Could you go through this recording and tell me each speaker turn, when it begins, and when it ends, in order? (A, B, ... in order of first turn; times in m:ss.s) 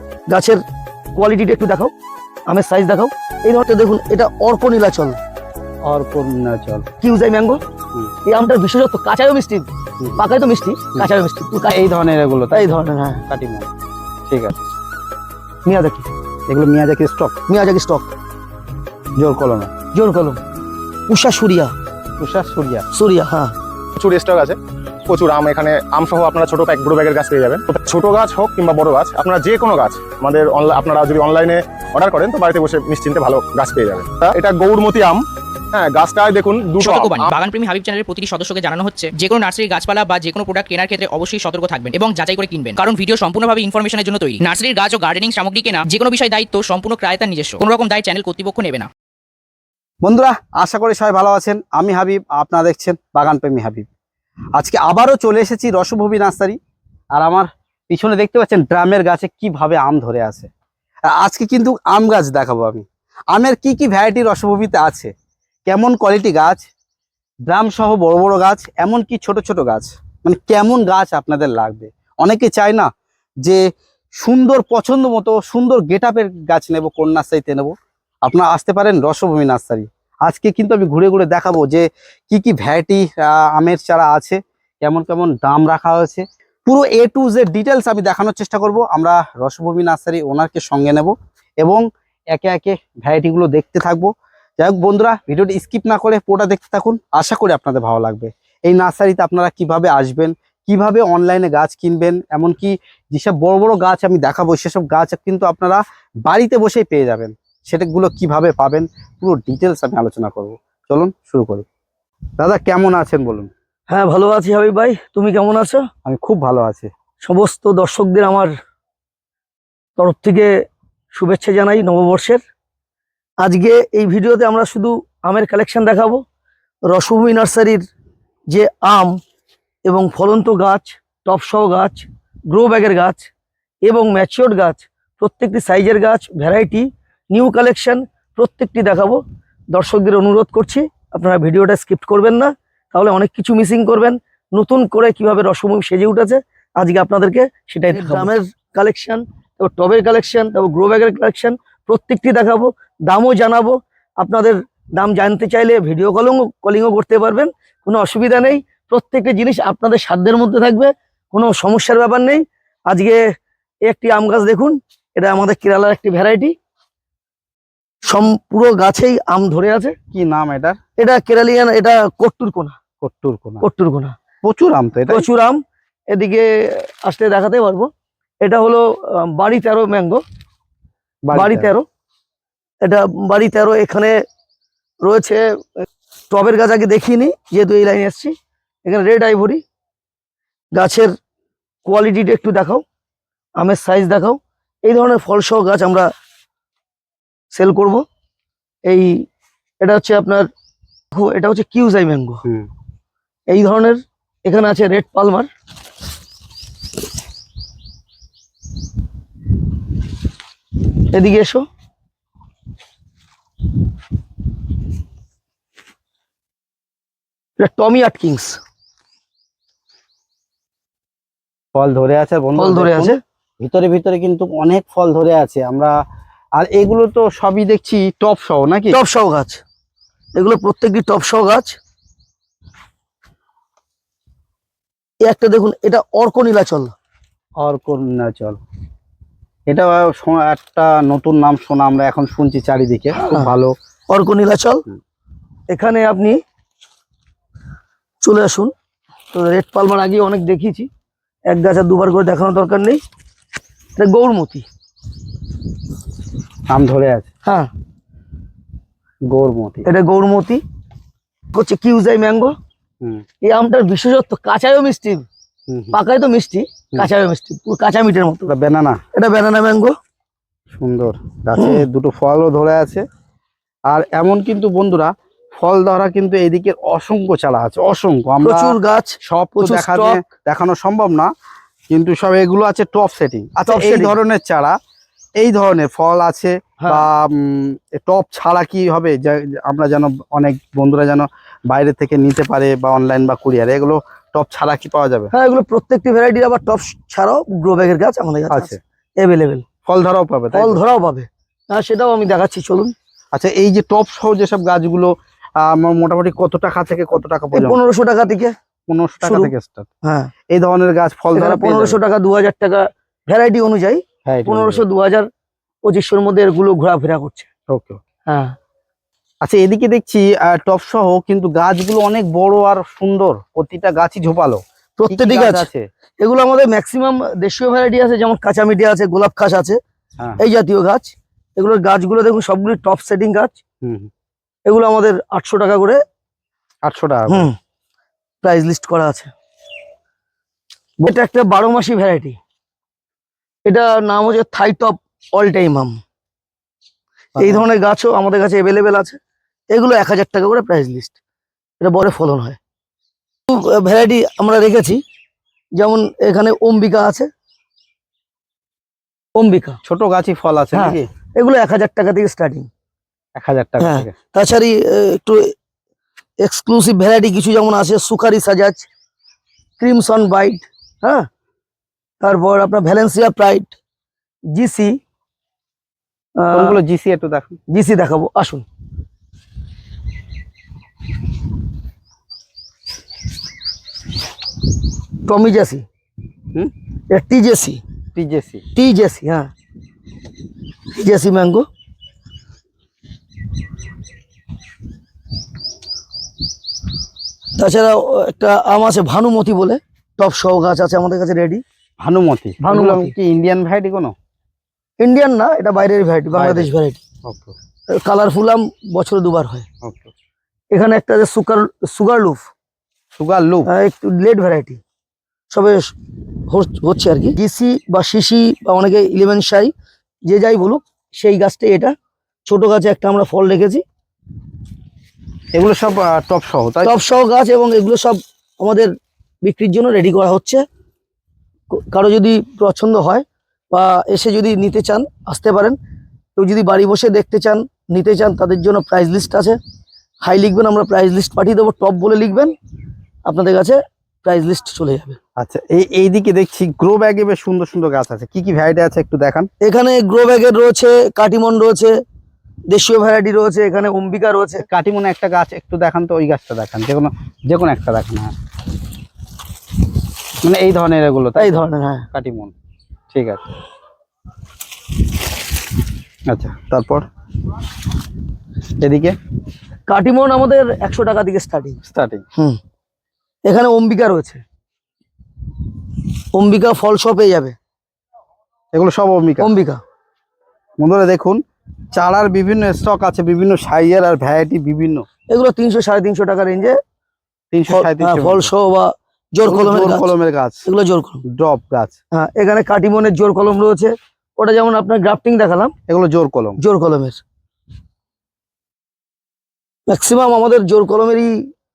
0:00.3-0:00.6 A
0:01.2-0:01.9 A
0:02.5-0:05.2 A
0:05.9-0:06.9 B
0:07.0-0:07.6 A
0:08.3-0:11.8 A
0:11.7-0:13.7 B
0:12.5-0:13.2 A
0:14.3-0:14.6 B
0:15.6-0:16.1 A
0:16.5-0:17.4 B
0:17.5-0:18.1 A
0:19.2-0:19.7 B
0:19.9-0:20.4 A
0:21.1-0:21.7 A
0:22.2-0:22.9 B
0:22.9-0:23.5 A
0:24.0-0:24.6 C
0:25.1-0:35.2 C
0:35.7-0:37.3 C
0:36.8-0:48.9 D
0:50.0-0:53.9 B
0:54.6-0:56.6 B
0:57.1-1:00.5 B
1:01.0-1:05.1 B
1:05.6-1:06.6 B
1:07.5-1:12.9 B
1:14.2-1:51.6 B
1:52.4-1:53.5 B
1:53.9-1:55.8 A
1:56.0-1:56.9 B
1:57.2-1:58.5 A
2:00.0-2:00.5 A
2:01.1-2:02.4 A
2:03.4-2:06.2 A
2:06.9-2:07.8 A
2:08.5-2:09.2 A
2:09.8-2:13.3 A
2:13.8-2:19.2 A
2:19.7-2:43.2 A
2:43.9-2:46.6 A
2:48.1-2:50.0 A
2:50.1-2:50.8 B
2:51.0-2:52.8 A
2:53.0-2:53.6 B
2:53.6-2:54.2 A
2:54.4-2:55.3 B
2:55.1-2:57.9 A
2:58.4-3:00.2 A
3:01.2-3:01.7 B
3:01.3-3:01.8 A
3:02.8-3:04.2 A
3:05.0-3:05.4 A
3:06.3-3:09.6 A
3:10.7-3:11.1 A
3:11.8-3:12.8 A
3:13.6-3:16.1 A
3:17.5-3:18.0 A
3:18.9-3:19.1 A
3:19.8-3:20.5 A
3:21.1-3:22.4 A
3:23.5-3:25.5 A
3:31.1-3:31.7 A
3:37.6-3:38.6 A
3:41.7-3:46.0 B
3:42.6-3:43.2 A
3:46.6-3:49.0 B
3:48.9-3:49.6 A
3:50.4-3:51.8 A
3:55.2-3:56.9 A
3:57.6-3:58.6 B
3:59.7-4:03.7 B
4:03.2-4:03.5 A
4:04.1-4:04.8 A
4:05.7-4:06.4 A
4:08.2-4:08.7 A
4:09.3-4:10.9 A
4:11.5-4:13.0 A
4:14.0-4:14.6 A
4:16.7-4:17.3 B
4:17.4-4:17.7 A
4:19.3-4:19.9 B
4:19.8-4:20.6 A
4:21.5-4:22.5 A
4:23.4-4:25.3 A
4:25.7-4:26.0 B
4:25.9-4:28.5 A
4:28.5-4:29.0 B
4:29.1-4:29.9 A
4:30.7-4:33.0 B
4:33.9-4:41.3 B
4:38.4-4:40.2 A
4:41.9-4:44.8 B
4:43.7-4:44.2 A
4:45.4-4:55.3 B
4:55.3-4:59.6 A
4:58.5-4:58.8 B
4:59.8-5:00.8 B
5:00.5-5:02.9 A
5:03.3-5:07.8 B
5:07.5-5:08.5 A
5:08.9-5:09.9 B
5:09.2-5:09.5 A
5:10.0-5:10.3 A
5:10.5-5:12.0 B
5:11.4-5:15.3 A
5:14.2-5:14.8 B
5:15.8-5:17.5 A
5:17.7-5:18.0 B
5:18.3-5:18.6 A
5:19.4-5:25.9 B
5:25.0-5:25.7 A
5:26.2-5:29.8 A
5:30.4-5:33.6 A
5:33.8-5:34.1 B
5:34.7-5:36.0 A
5:36.8-5:37.5 B
5:37.3-5:37.5 A
5:38.4-5:39.3 A
5:41.0-5:42.4 A
5:43.7-5:46.0 A
5:47.4-5:47.6 B
5:47.4-5:49.2 A
5:49.7-5:51.2 A
5:51.8-5:52.6 A
5:53.5-5:55.0 A
5:55.8-5:57.3 A
5:59.4-5:59.8 A
5:59.8-6:01.1 B
6:00.7-6:02.7 A
6:03.4-6:04.2 B
6:03.8-6:05.5 A
6:06.4-6:08.9 A
6:09.8-6:11.3 A
6:12.2-6:13.7 A
6:14.5-6:15.0 A
6:16.4-6:16.8 A
6:16.5-6:17.6 B
6:17.7-6:18.6 A
6:25.2-6:25.8 A
6:27.1-6:27.8 A
6:28.2-6:28.6 B
6:28.8-6:29.5 A
6:30.9-6:31.7 A
6:37.6-6:41.6 A
6:42.0-6:44.1 B
6:42.6-6:43.1 A
6:45.0-6:47.0 A
6:46.3-6:46.7 B
6:47.3-6:47.5 B
6:47.9-6:49.7 A
6:49.8-6:50.1 B
6:50.7-6:52.5 A
6:53.2-6:53.7 B
6:53.7-6:54.8 A
6:55.5-6:55.9 A
6:56.5-6:59.7 A
7:00.3-7:01.9 A
7:02.4-7:03.8 A
7:05.5-7:07.0 B
7:06.8-7:08.9 A
7:09.4-7:10.6 A
7:11.7-7:15.8 A
7:16.4-7:19.6 A
7:20.2-7:22.5 A
7:23.3-7:25.2 A
7:25.4-7:29.5 B
7:29.6-7:31.9 A
7:32.7-7:34.6 A
7:34.7-7:38.3 B
7:40.4-7:42.5 B
7:41.4-7:42.1 A
7:43.1-7:43.5 B
7:46.3-7:47.0 B
7:48.8-7:49.2 B
7:49.9-7:51.8 A
7:51.8-7:52.2 B
7:53.4-7:54.4 A
7:56.3-7:57.6 A
7:58.7-7:59.5 B
7:59.4-7:59.8 A
8:00.8-8:01.4 B
8:01.9-8:05.0 B
8:05.3-8:06.8 A
8:07.5-8:08.5 B
8:07.7-8:10.1 A
8:09.4-8:10.7 B
8:10.6-8:11.2 A
8:11.3-8:12.0 B
8:12.1-8:15.7 A
8:15.9-8:16.6 B
8:16.6-8:17.2 A
8:19.9-8:21.3 A